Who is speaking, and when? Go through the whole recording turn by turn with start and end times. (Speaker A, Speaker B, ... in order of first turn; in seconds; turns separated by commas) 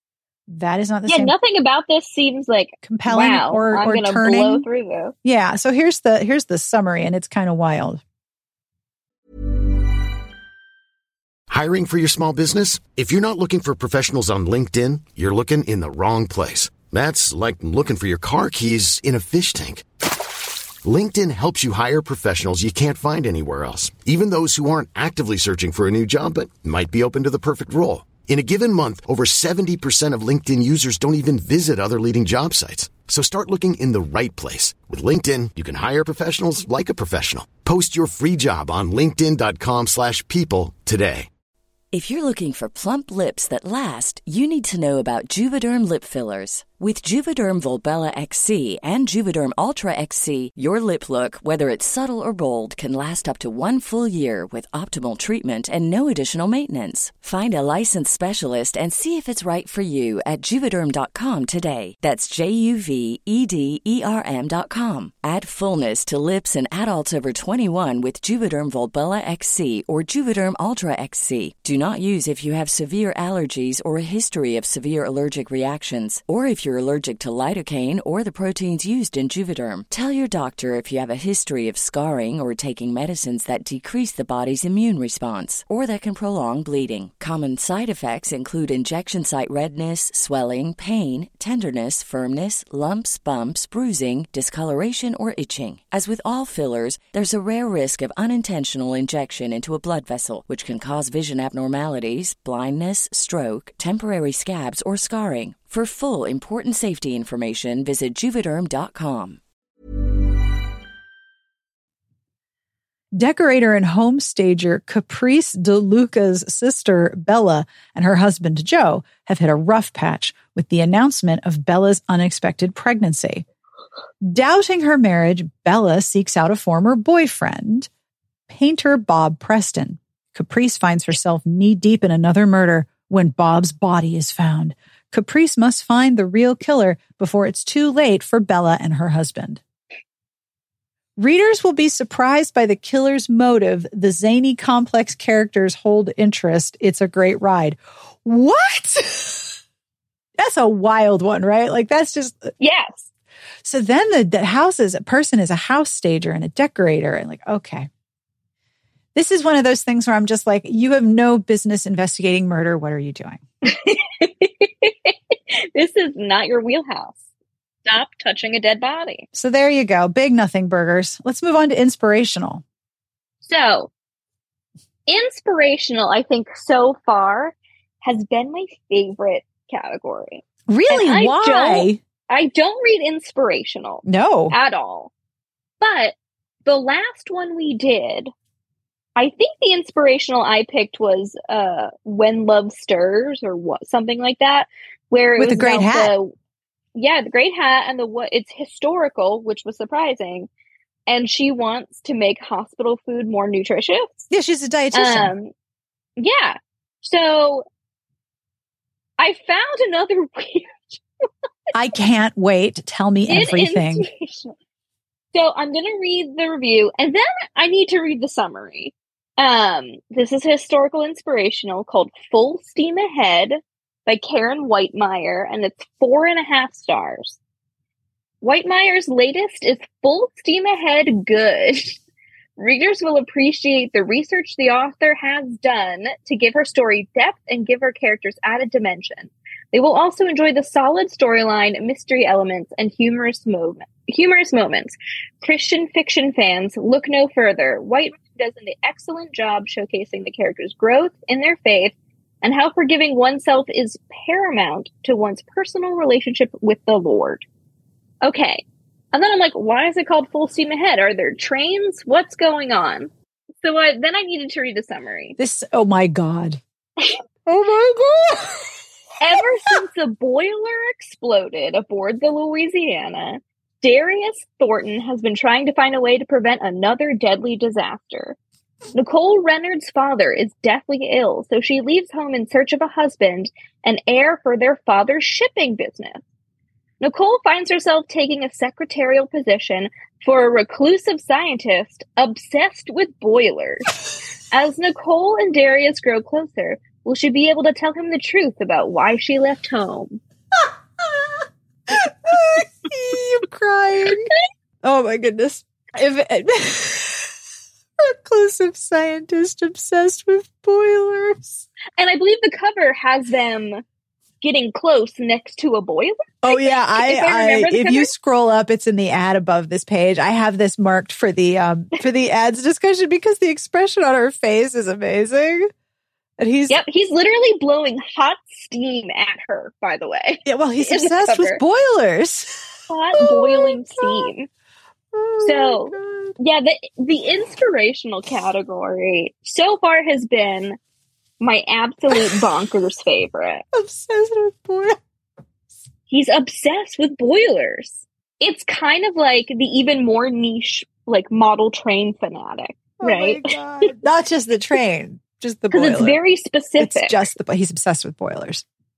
Speaker A: 0.5-1.3, Speaker B: 1.1-5.1, Speaker A: 2.8-4.7, Speaker A: 5.2-8.0, Speaker C: 11.5-19.8, Speaker C: 20.8-41.3, Speaker D: 41.9-109.4, Speaker A: 113.2-123.4, Speaker A: 124.2-127.9, Speaker A: 128.5-139.6, Speaker A: 141.2-149.5, Speaker A: 150.4-152.5, Speaker B: 152.6-153.1, Speaker A: 153.6-157.9, Speaker A: 159.1-163.4, Speaker B: 163.6-167.2, Speaker B: 167.8-169.3, Speaker A: 169.3-172.6, Speaker B: 173.4-173.9, Speaker B: 175.1-185.1, Speaker A: 180.7-182.0, Speaker A: 184.0-184.5, Speaker B: 185.8-186.1, Speaker B: 186.7-188.3, Speaker B: 189.2-196.3, Speaker A: 195.4-196.1, Speaker B: 196.9-200.5, Speaker B: 201.1-204.3, Speaker A: 204.3-205.3, Speaker B: 204.9-205.5, Speaker B: 206.2-207.7, Speaker B: 209.2-211.0, Speaker A: 211.7-214.1, Speaker B: 213.3-214.5, Speaker B: 215.3-227.4, Speaker B: 228.4-232.0, Speaker B: 232.6-257.4, Speaker B: 258.2-263.1, Speaker B: 263.6-265.4, Speaker A: 265.4-266.6, Speaker A: 267.4-268.6, Speaker B: 269.2-278.4, Speaker A: 269.4-269.7, Speaker B: 278.9-286.2, Speaker B: 287.0-293.9, Speaker B: 294.5-300.2, Speaker A: 301.9-304.3, Speaker A: 304.8-307.3, Speaker A: 308.0-311.6, Speaker B: 312.0-313.8, Speaker B: 314.4-318.1, Speaker A: 316.4-325.7, Speaker A: 326.4-326.8, Speaker B: 326.7-331.6, Speaker A: 330.4-332.5, Speaker B: 332.9-334.5, Speaker A: 333.1-334.3, Speaker A: 335.1-336.4, Speaker B: 335.4-340.8, Speaker B: 341.4-343.6, Speaker A: 343.7-345.0, Speaker B: 346.1-353.9, Speaker A: 353.0-356.2, Speaker B: 355.7-357.2, Speaker A: 356.8-358.6